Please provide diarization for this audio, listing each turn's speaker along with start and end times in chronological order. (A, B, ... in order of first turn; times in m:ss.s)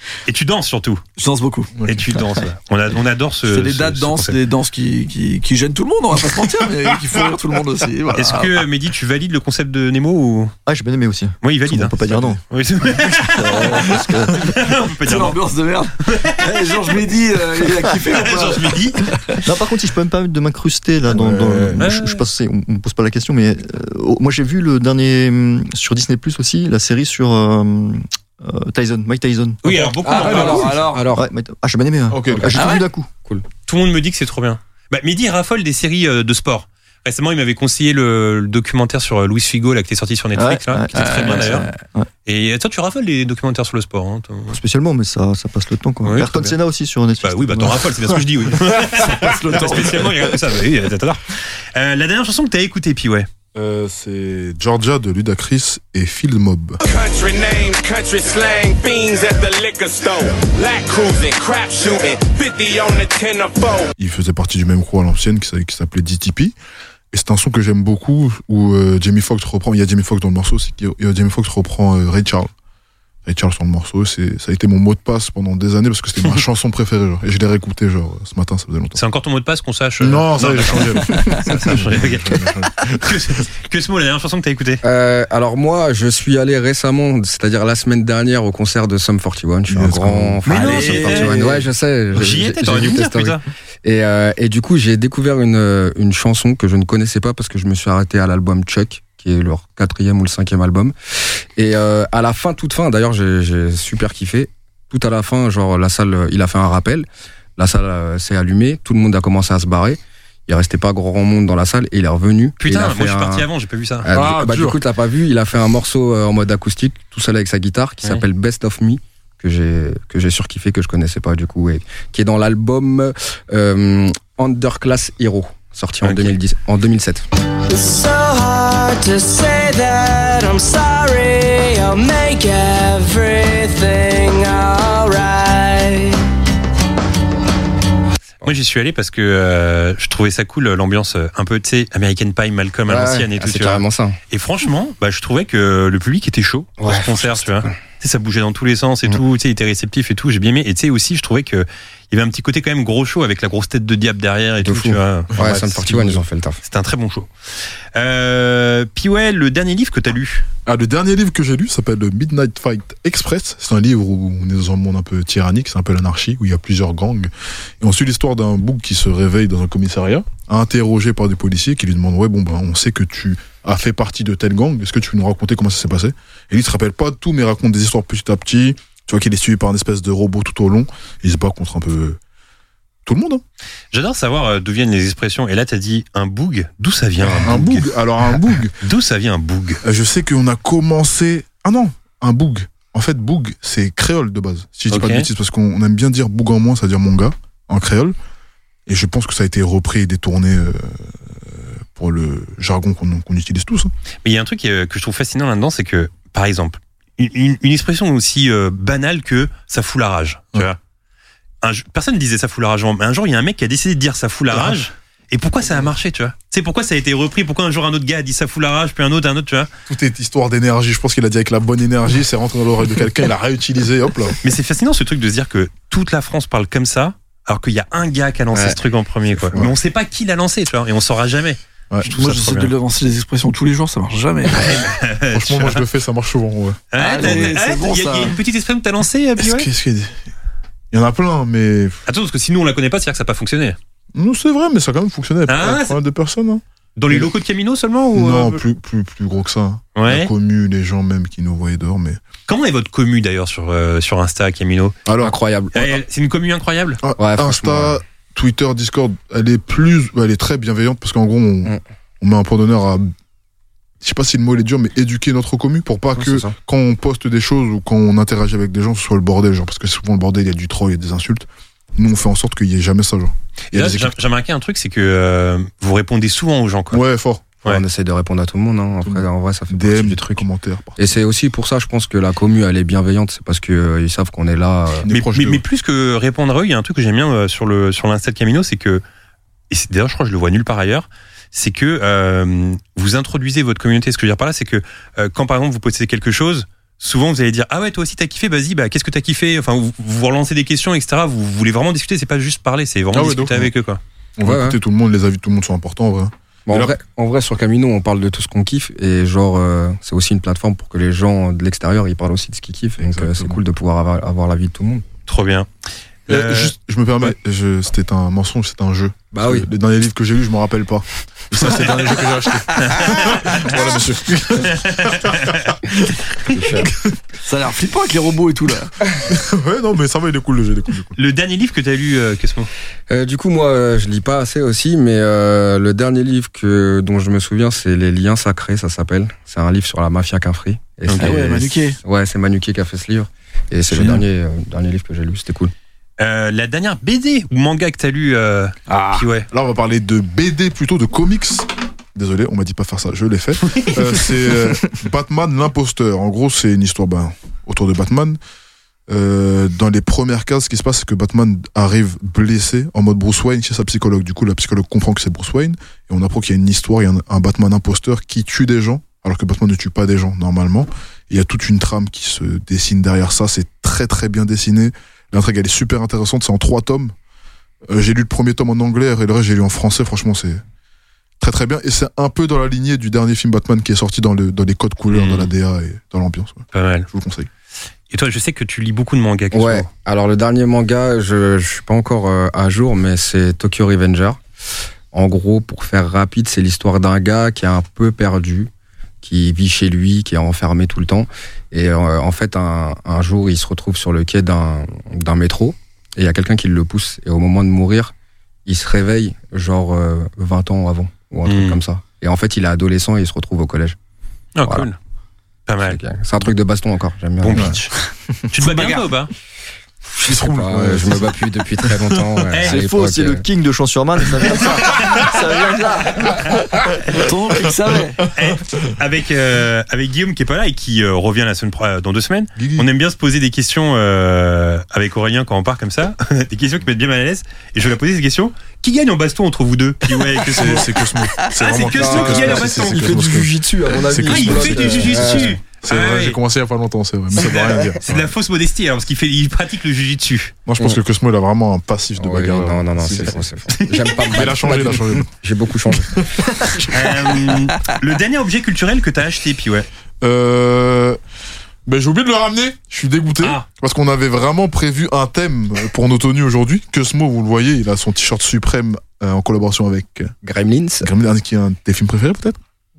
0:00.3-0:01.0 A
0:01.2-0:01.7 B
0:01.9-0:04.4 A
0:03.5-0:08.6 B
0:08.1-0:10.5 A
0:10.7-0:14.5 C
0:11.4-0:15.4 A
0:12.1-0:12.4 D
0:13.5-0:13.9 B
0:15.0-0:19.4 B
0:16.1-0:16.4 A
0:18.1-0:19.1 A
0:19.4-0:29.6 C
0:21.1-0:21.8 D
0:21.8-0:22.2 A
0:29.6-0:30.7 A
0:29.7-0:31.1 B
0:30.1-0:31.3 E
0:31.1-0:33.1 C
0:32.1-0:32.7 D
0:32.5-0:32.8 B
0:33.7-0:41.7 A
0:40.4-0:42.1 C
0:40.9-0:41.8 B
0:42.3-0:44.6 A
0:44.5-0:48.0 C
0:46.0-0:46.6 A
0:47.2-0:53.3 A
0:49.2-0:50.1 B
0:53.6-0:56.8 D
0:56.8-1:03.9 F
1:04.0-1:06.6 D
1:07.1-1:12.5 D
1:13.2-1:19.0 D
1:19.0-1:24.8 A
1:20.0-1:23.4 D
1:24.8-1:47.1 E
1:29.7-1:31.4 D
1:30.5-1:33.4 A
1:47.6-1:53.5 E
1:52.6-1:54.1 A
1:54.0-2:07.2 E
1:54.1-1:54.8 D
2:06.0-2:06.4 A
2:07.7-2:16.2 G
2:18.4-2:37.3 A
2:22.9-2:24.2 E
2:26.8-2:27.8 E
2:34.6-2:36.6 E
2:35.3-2:35.8 D
2:38.0-2:40.5 A
2:40.7-3:02.2 D
3:03.1-3:03.4 D
3:03.9-3:07.9 A
3:07.2-3:08.8 D
3:08.8-3:09.8 A
3:09.8-3:18.2 D
3:14.9-3:15.3 A
3:18.9-3:23.9 D
3:24.2-3:30.8 A
3:31.6-3:39.7 A
3:39.9-3:44.4 D
3:44.4-3:52.7 A
3:48.5-3:48.8 E
3:49.3-3:49.8 E
3:52.0-3:54.8 B
3:54.6-3:55.8 A
3:55.3-3:56.8 D
3:56.9-3:59.7 A
3:57.0-3:58.3 B
3:59.4-4:00.2 D
4:00.9-4:02.0 D
4:02.1-4:03.8 A
4:04.2-4:07.3 D
4:05.5-4:06.0 A
4:07.0-4:08.6 A
4:08.1-4:12.2 D
4:10.0-4:10.3 A
4:12.5-4:15.0 A
4:15.1-4:15.4 D
4:15.2-4:15.9 E
4:15.7-4:17.0 A
4:17.0-4:23.1 D
4:17.2-4:18.0 E
4:24.0-4:34.1 D
4:26.2-4:26.6 E
4:33.7-4:37.0 A
4:36.9-4:37.6 D
4:37.6-4:40.5 E
4:39.0-4:41.1 D
4:41.0-4:45.1 E
4:45.0-4:45.6 D
4:45.1-4:49.0 A
4:49.7-5:04.0 A
5:03.1-5:03.7 D
5:04.4-5:06.9 D
5:04.4-5:04.8 E
5:06.7-5:15.0 E
5:13.0-5:13.6 D
5:15.3-5:15.7 A
5:16.3-5:16.7 A
5:16.3-5:25.7 D
5:19.3-5:19.7 E
5:22.9-5:23.8 A
5:24.7-5:25.7 A
5:26.5-5:26.9 E
5:26.8-5:27.2 D
5:27.4-5:28.9 B
5:29.3-5:31.2 D
5:31.2-5:32.7 A
5:33.1-5:45.7 E
5:41.1-5:41.4 A
5:41.2-5:42.0 B
5:43.9-5:44.2 B
5:46.2-5:49.5 A
5:48.9-5:49.2 B
5:49.5-5:58.4 D
5:53.7-5:54.0 A
5:59.1-6:17.1 D
6:17.9-6:20.6 D
6:21.4-6:27.5 D
6:25.1-6:25.5 A
6:26.7-6:27.1 A
6:28.1-6:29.9 A
6:29.5-6:34.4 E
6:35.1-6:38.7 E
6:39.2-6:48.1 E
6:48.6-6:54.0 E
6:51.5-6:51.8 A
6:54.6-6:55.0 A
6:55.7-6:56.0 A
6:55.8-6:57.8 E
6:57.4-6:57.9 A
6:58.5-6:59.3 A
6:58.6-6:59.0 B
7:00.1-7:03.4 E
7:00.2-7:01.3 D
7:01.9-7:02.4 D
7:02.5-7:02.8 A
7:02.6-7:06.8 C
7:07.1-7:08.3 B
7:08.4-7:23.3 A
7:12.6-7:12.9 D
7:20.4-7:28.3 D
7:21.9-7:25.6 E
7:24.2-7:26.4 A
7:27.4-7:30.6 A
7:30.7-7:33.4 D
7:32.2-7:36.4 E
7:33.8-7:34.6 A
7:34.3-7:35.3 D
7:36.1-7:37.1 D
7:36.9-7:39.9 A
7:40.2-7:41.2 D
7:41.9-7:50.3 D
7:43.4-7:43.7 A
7:50.4-7:51.1 E
7:51.0-7:52.6 D